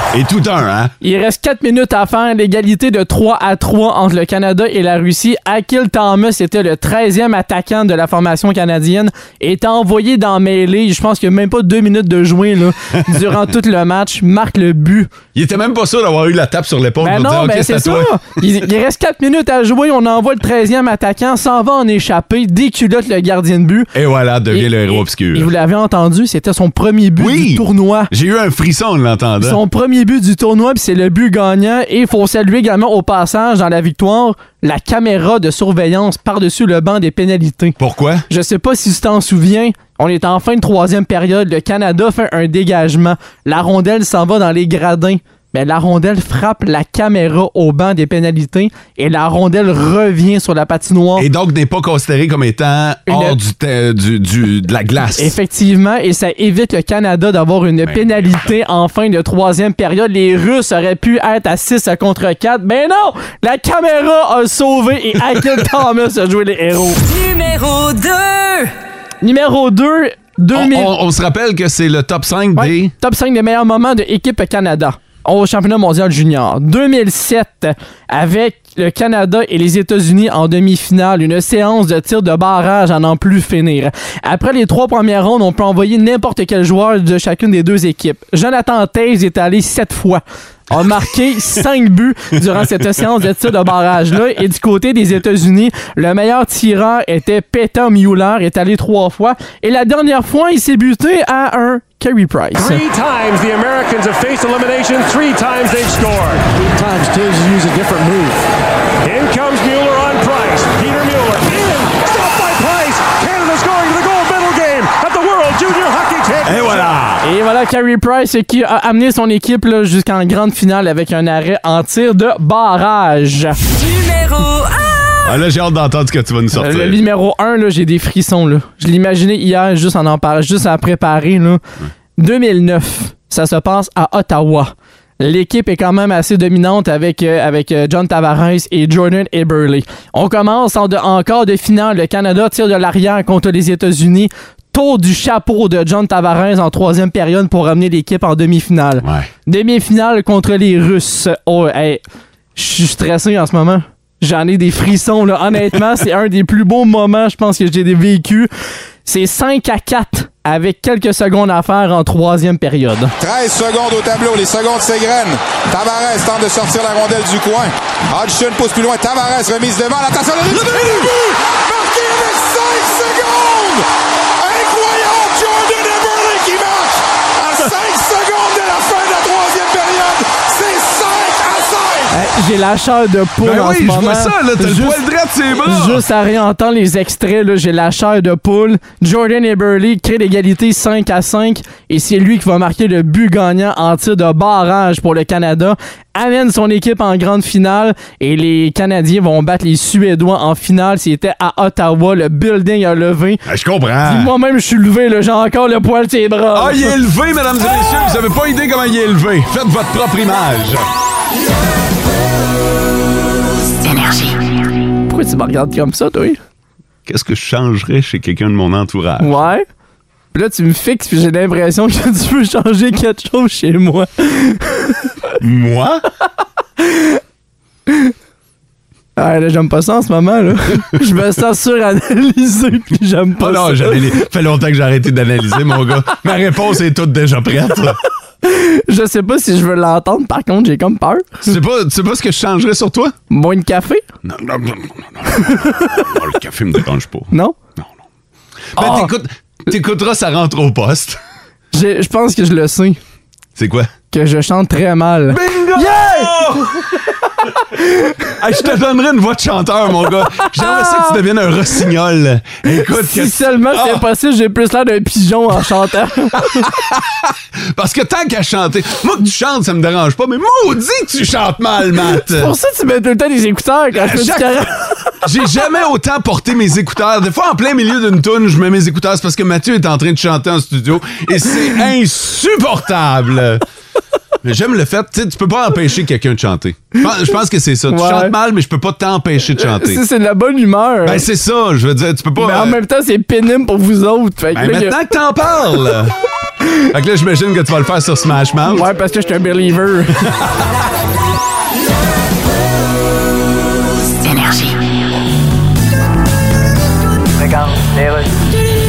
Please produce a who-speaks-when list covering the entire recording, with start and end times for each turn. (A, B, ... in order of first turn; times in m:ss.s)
0:00.1-0:00.9 A
0:01.0-0:15.1 B
0:15.3-0:18.1 A
0:17.0-0:23.9 B
0:23.9-0:25.5 A
0:24.5-0:28.1 B
0:27.2-0:29.6 A
0:29.4-0:37.8 B
0:37.8-0:38.2 A
0:38.3-0:51.3 B
0:51.2-0:55.4 A
0:53.1-0:53.4 B
0:55.2-1:07.0 B
0:57.8-0:58.5 A
1:07.0-1:08.7 C
1:09.2-1:10.9 B
1:10.5-1:12.9 A
1:12.6-1:42.8 B
1:42.5-1:48.5 D
1:49.0-1:56.9 D
1:56.4-1:57.2 A
1:57.2-2:03.6 B
2:03.7-2:05.4 C
2:05.2-2:07.0 A
2:06.5-2:11.6 B
2:12.2-2:32.0 B
2:29.0-2:29.3 A
2:32.5-2:38.5 B
2:39.0-2:43.1 B
2:43.2-2:53.8 E
2:54.4-3:02.1 E
3:02.1-3:05.0 B
3:03.4-3:06.0 A
3:05.5-3:23.4 B
3:23.4-3:24.3 A
3:24.0-3:27.0 B
3:26.5-3:30.8 A
3:35.1-3:36.4 B
3:37.0-3:39.3 A
3:39.2-3:39.6 B
3:40.3-3:45.1 B
3:45.4-3:46.0 A
3:46.8-3:47.2 B
3:47.9-3:48.1 B
3:49.2-3:54.2 B
3:53.4-3:58.0 A
3:58.4-4:01.4 B
4:01.4-4:03.1 A
4:03.3-4:04.0 B
4:04.2-4:07.9 A
4:05.3-4:06.0 B
4:08.7-4:11.2 A
4:08.8-4:09.1 B
4:11.7-4:13.0 B
4:13.6-4:13.9 A
4:14.1-4:16.7 B
4:15.3-4:16.9 A
4:17.7-4:18.1 B
4:18.3-4:24.0 A
4:20.4-4:21.2 B
4:22.6-4:26.7 B
4:26.3-4:32.5 A
4:32.1-4:35.2 B
4:33.9-4:34.7 A
4:35.2-4:43.6 A
4:44.4-4:50.0 A
4:47.9-4:48.3 B
4:49.6-4:51.2 B
4:51.0-4:52.8 A
4:52.4-4:55.0 B
4:54.5-4:56.2 A
4:56.9-4:58.9 A
4:58.7-5:00.3 B
5:00.2-5:00.5 A